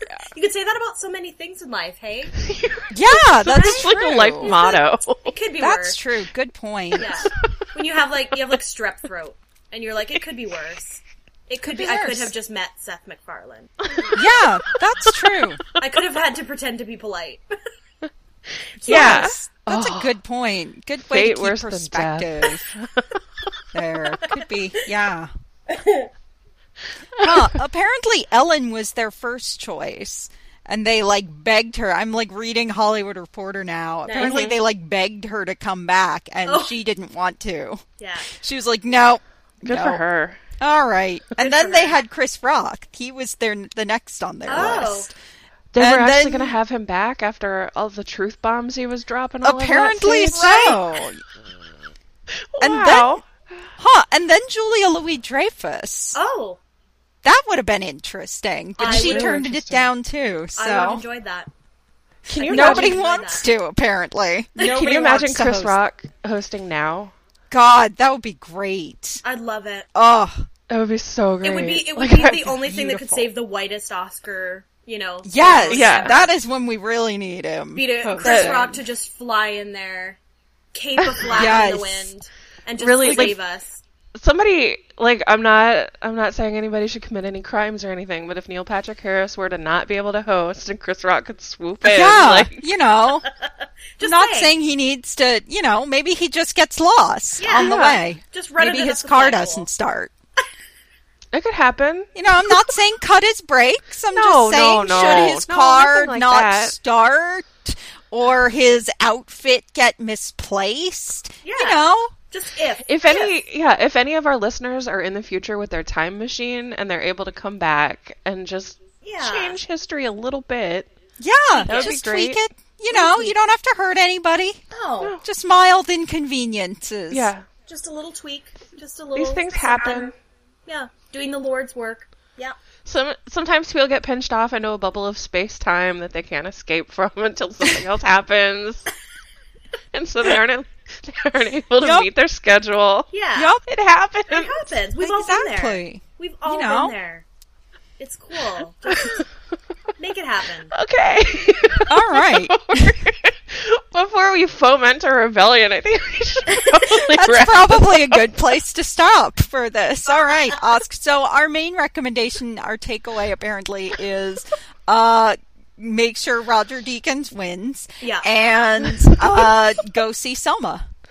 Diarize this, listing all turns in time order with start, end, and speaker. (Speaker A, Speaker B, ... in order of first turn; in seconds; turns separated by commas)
Speaker A: 0.3-2.4, Speaker B: 2.5-2.8, Speaker C: 2.9-4.6, Speaker B: 3.3-5.3, Speaker A: 3.5-6.0, Speaker C: 5.6-7.3, Speaker B: 7.0-7.5, Speaker A: 7.0-14.4, Speaker C: 11.6-12.3, Speaker B: 13.9-14.2, Speaker C: 14.1-15.6, Speaker B: 15.1-16.0, Speaker A: 15.8-17.4, Speaker B: 18.8-20.2, Speaker A: 18.8-19.4, Speaker C: 18.9-22.6, Speaker B: 21.0-23.5, Speaker C: 23.7-25.3, Speaker A: 25.7-26.1, Speaker C: 27.2-40.0, Speaker A: 34.0-34.4, Speaker B: 34.2-34.6, Speaker A: 36.5-36.8, Speaker A: 38.0-38.3, Speaker B: 39.6-40.4, Speaker C: 40.6-45.1, Speaker A: 41.4-42.0, Speaker A: 44.5-45.1, Speaker B: 45.7-50.8, Speaker C: 45.8-46.6, Speaker C: 49.4-51.2, Speaker B: 52.5-53.2, Speaker C: 52.6-53.2, Speaker C: 53.8-56.2, Speaker A: 56.1-56.6, Speaker C: 57.2-61.0, Speaker A: 58.8-59.4, Speaker B: 58.8-59.9, Speaker A: 60.6-61.5, Speaker B: 62.3-63.0, Speaker A: 62.3-63.5, Speaker C: 62.5-65.8, Speaker A: 64.6-65.2, Speaker B: 64.6-67.1, Speaker C: 67.5-69.2, Speaker A: 69.2-69.9, Speaker C: 70.0-70.5, Speaker B: 70.7-72.5, Speaker A: 71.4-76.4, Speaker C: 72.5-73.3, Speaker C: 75.2-78.8, Speaker B: 75.7-76.2, Speaker A: 77.8-80.2, Speaker B: 78.2-78.6, Speaker A: 80.7-83.8, Speaker B: 81.0-81.6, Speaker C: 81.3-82.1, Speaker B: 82.8-83.4, Speaker B: 84.2-92.6, Speaker C: 91.8-93.3, Speaker A: 93.2-94.5, Speaker C: 94.0-100.1, Speaker A: 97.4-99.7, Speaker B: 101.3-102.1, Speaker C: 102.2-112.1, Speaker B: 104.1-106.8, Speaker A: 111.4-113.3, Speaker B: 112.9-120.9, Speaker A: 119.0-119.6, Speaker C: 121.2-124.6, Speaker A: 121.6-122.0, Speaker B: 121.6-122.4, Speaker A: 122.9-123.4, Speaker A: 124.7-125.2, Speaker C: 125.2-127.3, Speaker B: 127.1-127.5, Speaker A: 127.7-130.1, Speaker B: 129.2-130.2, Speaker A: 130.7-132.6, Speaker B: 132.9-138.9, Speaker B: 139.9-143.1, Speaker C: 141.8-142.1, Speaker A: 143.1-143.6, Speaker C: 143.3-143.6, Speaker B: 143.7-144.7, Speaker A: 144.3-147.3, Speaker C: 145.0-146.9, Speaker A: 148.0-149.2, Speaker B: 148.9-149.2, Speaker A: 150.0-150.7, Speaker B: 150.7-158.4, Speaker C: 151.9-152.9, Speaker C: 157.2-170.8, Speaker A: 168.0-169.5